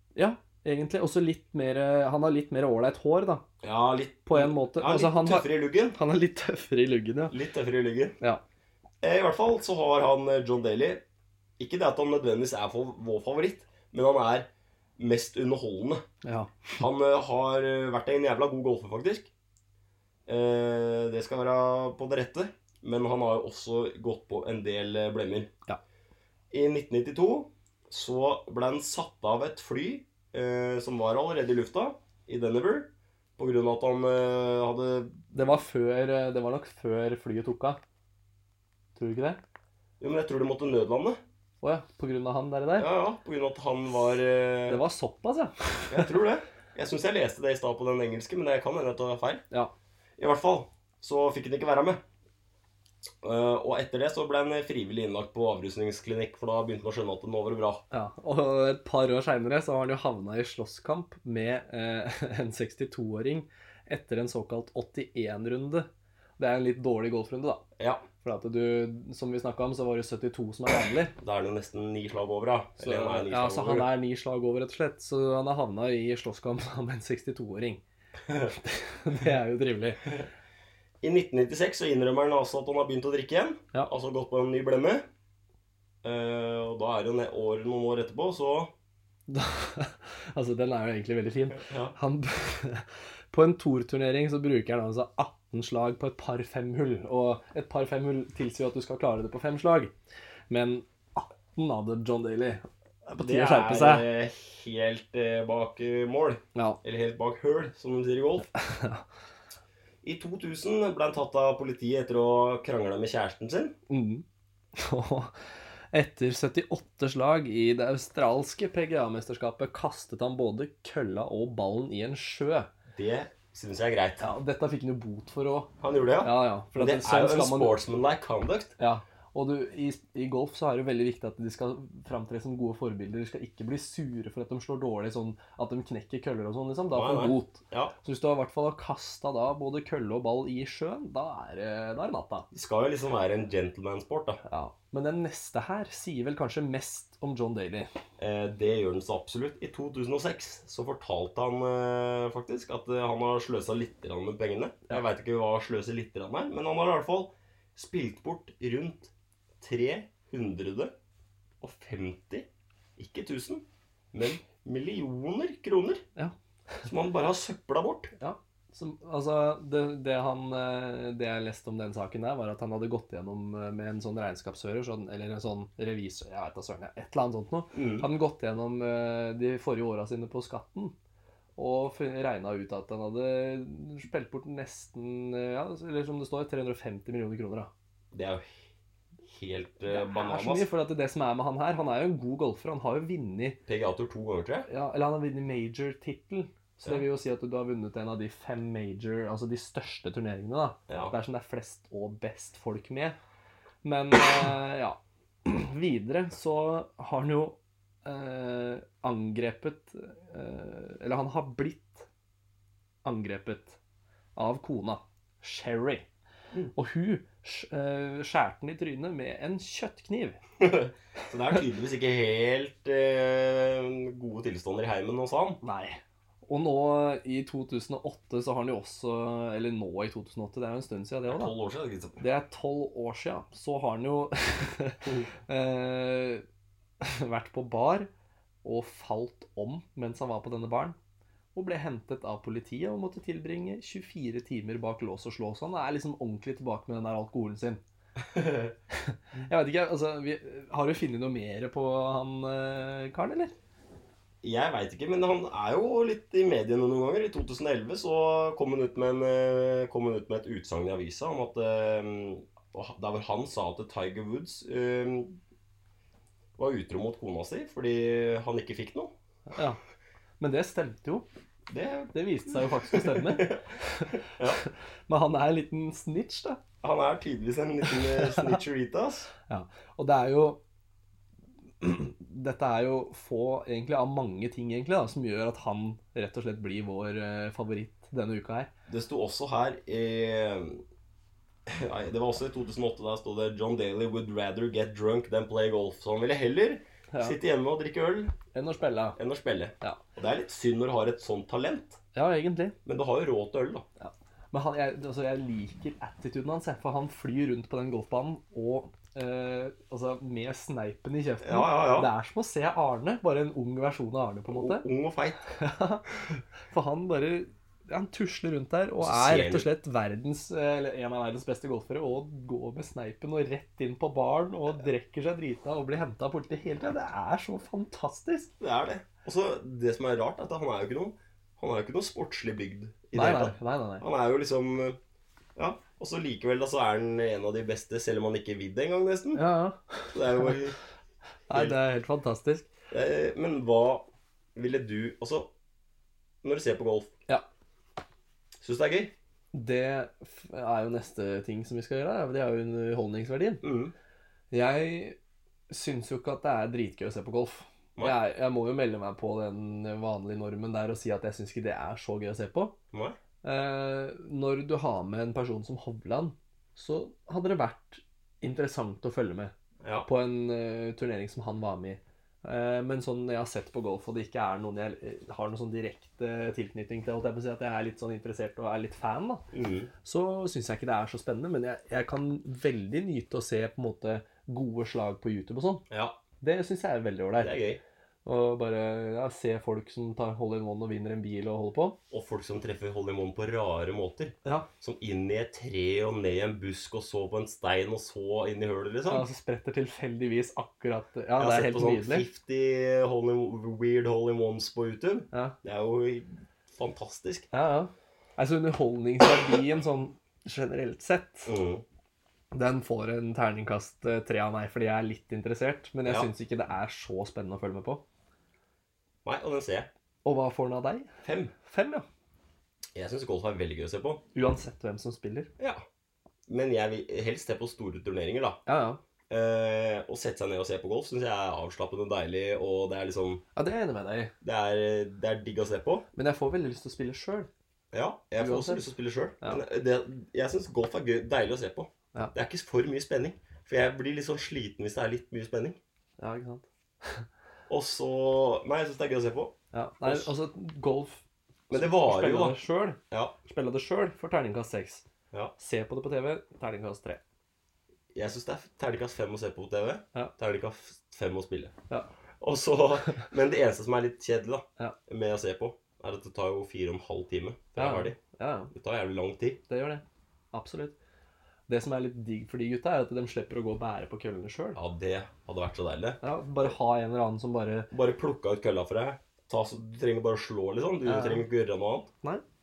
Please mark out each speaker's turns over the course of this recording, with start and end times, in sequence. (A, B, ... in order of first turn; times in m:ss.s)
0:00.2-0:03.4 A
0:03.6-0:06.0 B
0:04.3-0:07.4 A
0:07.3-0:08.2 B
0:09.0-0:11.0 B
0:11.6-0:16.0 B
0:16.2-0:16.7 A
0:16.8-0:19.3 B
0:20.3-0:25.5 B
0:26.5-0:35.5 B
0:35.3-0:37.8 A
0:39.0-0:39.4 A
0:40.0-0:41.2 B
0:41.6-0:42.9 A
0:42.8-0:44.8 B
0:44.7-0:46.1 A
0:45.9-0:49.4 B
0:50.2-0:52.0 B
0:53.2-0:57.8 B
0:57.9-1:07.6 A
1:07.8-1:08.0 B
1:08.2-1:11.2 A
1:11.2-1:13.9 B
1:12.8-1:17.8 A
1:18.5-1:20.2 A
1:21.0-1:25.1 B
1:26.0-1:28.7 B
1:29.3-1:39.9 A
1:31.6-1:32.0 B
1:40.5-1:44.1 A
1:43.2-1:48.5 B
1:46.6-1:46.8 A
1:48.6-1:49.0 A
1:50.0-1:53.7 B
1:53.9-1:55.4 A
1:55.9-2:02.7 A
2:02.9-2:04.3 B
2:04.2-2:07.8 A
2:05.8-2:08.8 B
2:08.8-2:22.5 A
2:16.9-2:18.0 B
2:22.5-2:24.4 B
2:24.4-2:27.9 A
2:28.2-2:40.9 B
2:41.6-2:46.0 B
2:46.2-2:46.8 A
2:46.8-2:48.1 B
2:48.2-3:01.0 A
2:57.7-2:58.1 B
3:01.6-3:07.7 A
3:08.1-3:08.5 B
3:09.3-3:10.7 B
3:09.9-3:13.6 A
3:13.7-3:14.7 B
3:14.7-3:23.2 A
3:20.9-3:21.1 B
3:23.8-3:32.1 A
3:33.0-3:33.8 A
3:34.4-3:36.1 A
3:36.7-3:40.4 A
3:40.6-3:45.6 B
3:45.6-3:51.5 A
3:51.3-3:52.2 B
3:52.2-3:56.4 A
3:57.0-3:58.1 A
3:58.6-4:01.0 A
4:01.5-4:07.8 A
4:08.3-4:08.7 B
4:09.0-4:13.6 A
4:14.4-4:25.4 B
4:26.6-4:29.1 B
4:29.5-4:29.8 A
4:30.4-4:31.2 A
4:31.7-4:34.6 B
4:32.1-4:36.6 A
4:36.8-4:39.3 B
4:38.1-4:38.5 A
4:39.5-4:40.6 A
4:41.8-4:48.7 A
4:48.9-4:50.8 B
4:51.7-4:58.4 B
4:57.1-4:57.4 A
4:58.5-4:59.2 A
4:59.2-5:02.0 B
5:02.1-5:02.8 A
5:02.8-5:03.9 B
5:04.0-5:14.8 A
5:11.4-5:12.1 B
5:14.5-5:15.4 B
5:15.5-5:28.5 A
5:19.0-5:19.7 B
5:28.6-5:35.0 B
5:33.1-5:34.0 A
5:35.6-5:39.4 B
5:39.3-5:40.6 A
5:40.1-5:40.8 B
5:41.5-5:42.7 A
5:42.9-5:45.5 B
5:46.4-5:47.1 B
5:48.6-5:49.1 B
5:49.5-5:53.6 A
5:53.6-5:53.9 B
5:54.5-5:55.2 A
5:55.7-6:02.7 A
6:02.9-6:03.2 B
6:03.4-6:09.5 A
6:09.8-6:10.1 B
6:10.0-6:19.5 A
6:19.5-6:19.9 B
6:20.0-6:25.8 A
6:25.9-6:26.2 B
6:26.4-6:27.6 A
6:27.4-6:27.8 B
6:28.2-6:32.0 A
6:32.1-6:39.3 B
6:39.1-6:42.3 A
6:41.4-6:47.5 B
6:45.3-6:45.6 A
6:47.5-6:51.5 A
6:51.5-6:51.8 B
6:52.5-6:58.0 A
6:56.0-6:56.3 B
6:59.2-6:59.9 B
7:00.2-7:01.1 A
7:01.2-7:01.5 B
7:01.6-7:02.1 A
7:03.0-7:04.2 B
7:04.3-7:05.5 A
7:05.6-7:05.8 B
7:06.5-7:08.6 B
7:08.7-7:09.0 A
7:09.3-7:13.4 B
7:13.6-7:14.3 A
7:14.4-7:16.1 B
7:16.1-7:17.5 A
7:17.9-7:25.8 B
7:18.4-7:19.6 A
7:26.2-7:27.2 A
7:27.7-7:30.3 B
7:29.7-7:35.0 A
7:31.7-7:32.6 B
7:35.6-7:37.2 A
7:38.1-7:41.7 B
7:42.4-7:48.2 B
7:47.8-7:48.7 A
7:48.7-7:49.6 B
7:49.7-7:51.0 A
7:51.7-7:54.8 A
7:54.8-7:56.7 B
7:56.2-7:57.9 A
7:57.9-8:02.1 B
8:01.1-8:01.5 A